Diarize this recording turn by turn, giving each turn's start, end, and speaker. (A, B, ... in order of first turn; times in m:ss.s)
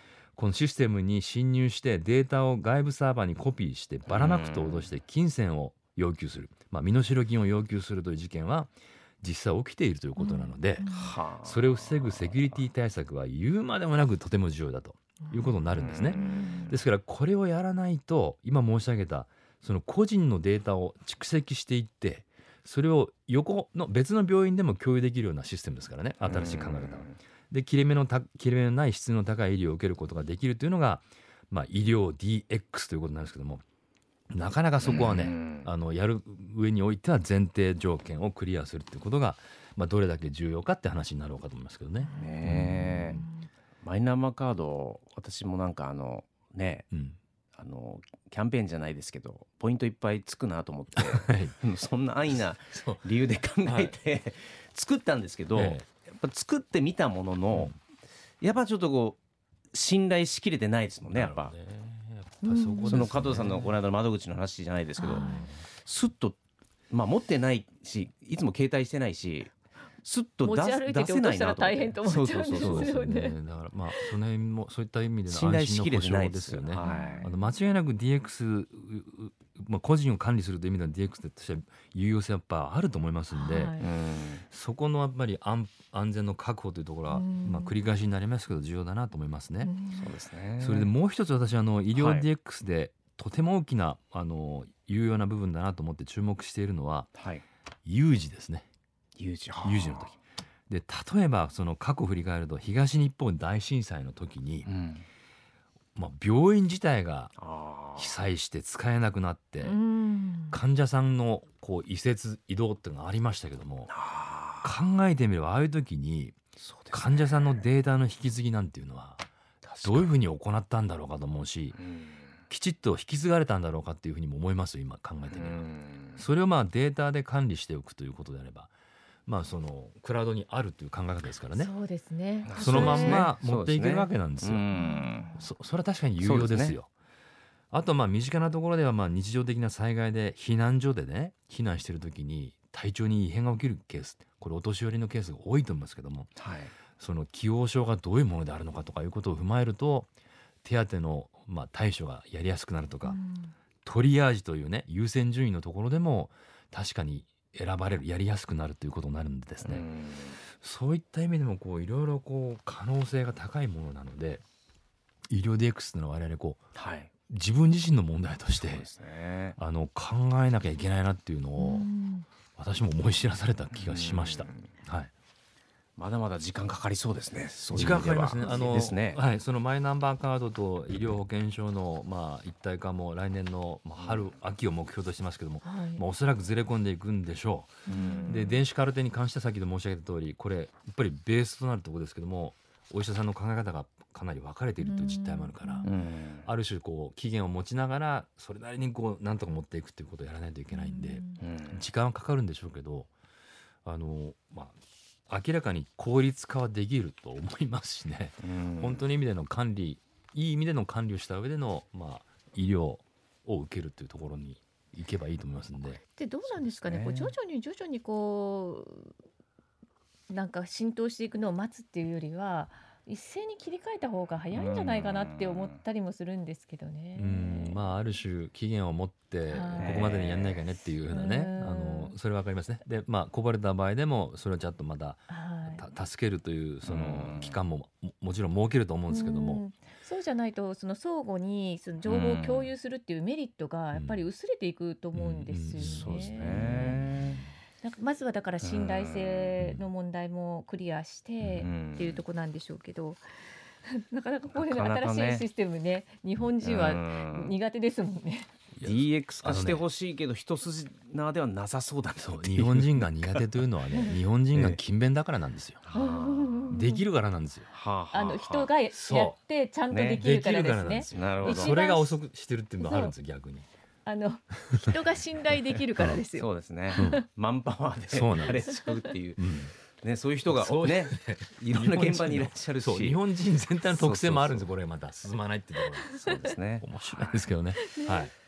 0:00.4-0:33.6 A
0:04.1-0:04.9 B
0:10.2-0:11.2 C
0:10.8-0:11.6 B
0:15.2-0:16.7 C
0:15.8-0:16.5 B
0:26.2-0:27.2 B
0:34.3-0:43.2 A
0:34.8-0:35.7 B
0:42.1-0:43.3 C
0:42.2-0:43.2 B
0:43.8-0:46.9 B
0:46.9-0:47.2 A
0:47.6-0:57.8 B
0:51.0-0:51.6 A
0:52.7-0:53.0 A
0:53.6-0:53.9 A
0:55.6-0:55.9 A
0:58.4-0:59.2 B
0:59.7-1:01.5 B
1:01.1-1:03.8 A
1:02.4-1:03.2 C
1:02.9-1:06.4 B
1:05.0-1:05.5 C
1:05.1-1:05.6 A
1:06.9-1:13.0 B
1:10.4-1:13.4 C
1:12.6-1:23.8 A
1:15.3-1:17.2 B
1:16.8-1:17.4 C
1:23.3-1:23.9 C
1:23.8-1:24.4 B
1:24.4-1:29.7 A
1:27.1-1:27.7 C
1:29.6-1:30.1 C
1:30.0-1:30.9 B
1:30.6-1:37.1 A
1:31.9-1:32.3 B
1:37.2-1:37.4 B
1:37.9-1:38.7 A
1:39.2-1:40.2 B
1:39.6-1:40.2 A
1:40.7-1:44.7 A
1:44.7-1:45.1 B
1:46.0-1:47.4 A
1:47.4-1:48.1 B
1:48.0-1:49.8 A
1:49.6-1:50.6 C
1:50.5-1:53.9 A
1:53.9-1:54.7 B
1:54.6-1:56.4 A
1:56.6-1:57.6 B
1:56.9-1:59.3 A
1:59.6-2:00.1 B
1:59.8-2:01.8 A
2:01.8-2:02.2 B
2:02.5-2:08.7 A
2:05.3-2:06.2 B
2:09.3-2:11.7 A
2:11.5-2:13.3 C
2:12.4-2:15.3 B
2:12.6-2:14.7 A
2:14.7-2:15.4 C
2:15.4-2:16.9 A
2:16.2-2:16.8 B
2:17.7-2:26.4 A
2:26.4-2:26.7 B
2:27.0-2:30.1 A
2:30.6-2:33.2 A
2:33.0-2:33.5 C
2:33.8-2:39.9 A
2:39.6-2:40.4 B
2:40.5-2:44.4 A
2:45.3-2:46.6 A
2:46.8-2:47.1 B
2:47.3-2:48.9 A
2:48.5-2:49.6 B
2:49.6-2:51.9 A
2:51.6-2:52.3 C
2:52.6-2:55.1 A
2:53.7-2:54.7 B
2:56.0-2:59.2 B
2:57.7-3:23.1 A
3:05.6-3:06.0 C
3:07.9-3:08.4 B
3:07.9-3:08.6 C
3:14.8-3:15.9 C
3:15.8-3:16.5 B
3:20.7-3:21.4 C
3:21.4-3:21.8 B
3:23.8-3:24.8 A
3:25.3-3:36.0 A
3:28.4-3:29.0 B
3:35.8-3:39.1 C
3:36.5-3:37.4 B
3:40.3-3:47.8 C
3:44.5-3:45.7 B
3:47.2-3:59.6 A
3:49.5-3:50.1 C
3:49.8-3:50.6 B
3:51.1-3:52.2 C
3:55.3-3:55.8 C
3:56.8-3:57.6 B
3:59.1-4:06.8 C
4:02.0-4:02.7 B
4:03.9-4:04.2 A
4:05.1-4:07.5 A
4:05.8-4:07.4 B
4:07.8-4:13.2 C
4:08.6-4:09.5 B
4:09.6-4:09.8 A
4:11.4-4:11.7 A
4:11.6-4:12.2 B
4:13.8-4:18.5 C
4:14.5-4:15.5 B
4:16.6-4:17.6 B
4:18.7-4:19.8 A
4:18.8-4:23.4 B
4:22.2-4:25.8 A
4:23.9-4:24.2 C
4:24.5-4:24.8 B
4:25.9-4:26.8 B
4:25.9-4:27.0 C
4:26.7-4:27.7 A
4:27.7-4:28.7 B
4:28.1-4:32.2 C
4:28.9-4:29.4 A
4:29.9-4:30.2 B
4:30.2-4:33.7 A
4:31.1-4:31.7 B
4:32.8-4:33.1 C
4:34.0-4:37.2 C
4:36.3-4:43.2 B
4:37.0-4:37.2 A
4:38.1-4:38.7 A
4:39.4-4:39.7 A
4:40.5-4:48.3 A
4:43.8-4:44.7 B
4:46.2-4:47.4 B
4:47.9-4:48.3 C